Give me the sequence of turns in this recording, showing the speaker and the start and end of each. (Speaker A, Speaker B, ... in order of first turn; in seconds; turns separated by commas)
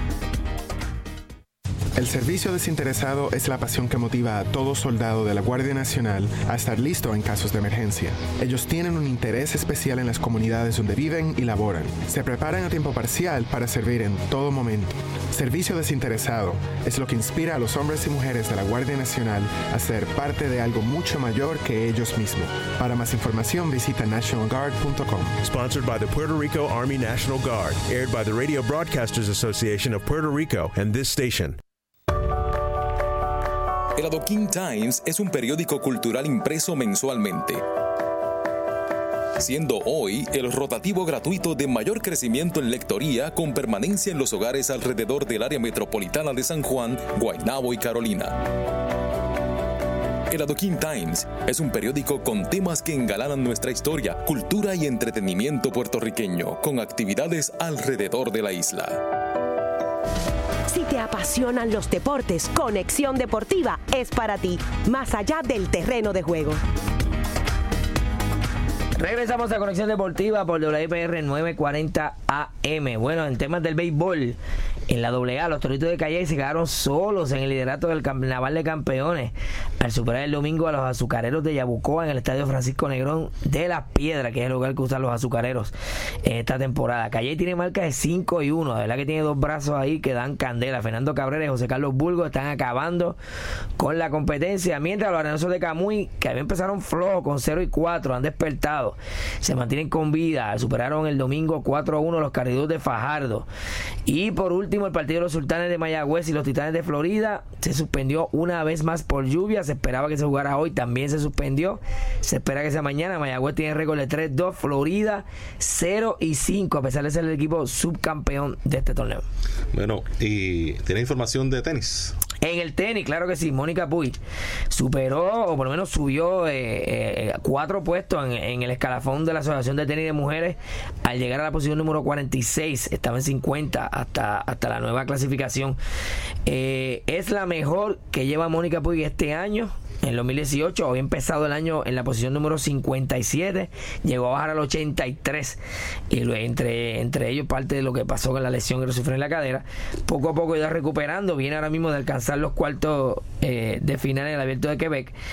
Speaker A: 1.9-25.4, Speaker B: 25.4-31.6, Speaker C: 34.0-37.6, Speaker C: 39.4-48.4, Speaker C: 50.3-59.0, Speaker D: 60.7-66.6, Speaker E: 69.0-74.4, Speaker E: 74.9-85.7, Speaker E: 86.2-93.2, Speaker E: 93.8-103.5, Speaker E: 104.0-119.2, Speaker F: 119.7-122.1, Speaker E: 122.4-124.2, Speaker E: 124.7-135.8, Speaker E: 136.4-145.6, Speaker E: 146.1-155.1